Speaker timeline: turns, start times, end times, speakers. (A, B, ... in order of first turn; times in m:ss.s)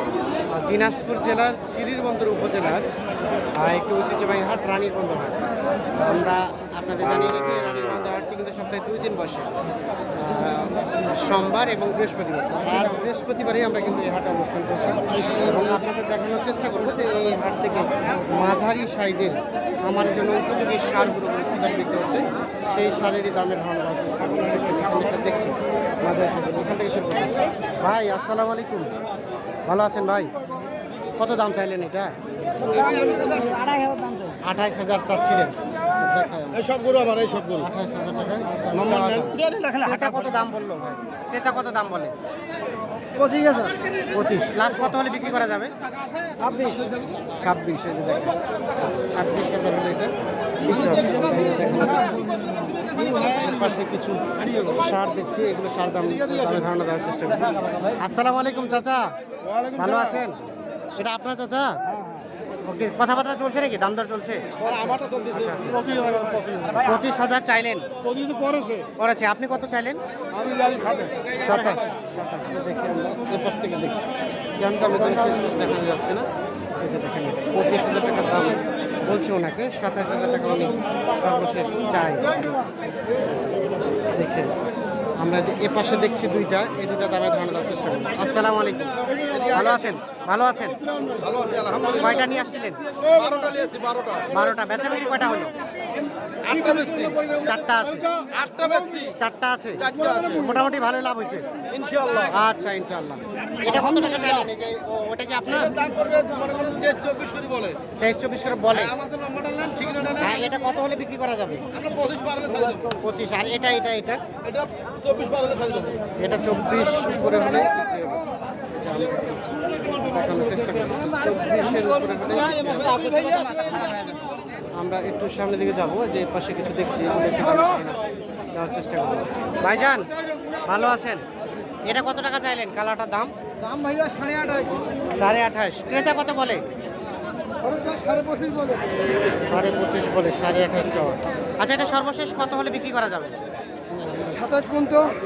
0:00.5-0:02.9 A
0:03.6-0:05.4 A
0:06.0-0:09.5 A
0:10.1-0:28.9 A
0:29.7-0:30.4 A
0:31.2-0:32.1 A
0:32.6-0:34.2 B
0:34.4-0:36.7 A
0:36.8-0:37.5 B
0:37.5-0:42.1 A
0:43.2-0:43.7 B
0:44.1-0:45.7 A
0:46.4-0:46.7 B
0:47.4-0:52.2 A
0:53.0-0:59.1 A
0:59.7-1:00.4 A
1:01.0-1:01.8 A
1:02.6-1:07.9 A
1:04.9-1:05.2 B
1:06.2-1:06.5 B
1:09.0-1:10.0 A
1:10.4-1:10.8 B
1:10.8-1:14.0 A
1:14.6-1:16.3 A
1:16.8-1:22.7 A
1:24.1-1:24.5 A
1:25.2-1:30.8 A
1:31.1-1:32.0 B
1:31.8-1:32.8 A
1:33.0-1:34.3 B
1:34.3-1:35.5 A
1:36.4-1:37.2 B
1:37.4-1:38.1 A
1:38.2-1:39.0 B
1:39.2-1:41.5 A
1:41.8-1:42.2 B
1:42.2-1:45.8 A
1:45.8-1:47.8 B
1:48.0-1:49.0 A
1:49.0-1:50.2 B
1:50.1-1:51.7 A
1:51.8-1:52.9 B
1:53.0-1:54.2 A
1:54.6-1:55.9 B
1:56.2-2:03.6 A
2:03.3-2:04.2 B
2:04.7-2:10.1 A
2:10.6-2:11.2 A
2:11.8-2:13.3 A
2:13.6-2:14.7 B
2:15.1-2:16.6 A
2:17.6-2:18.8 B
2:19.4-2:23.4 A
2:24.3-2:25.1 B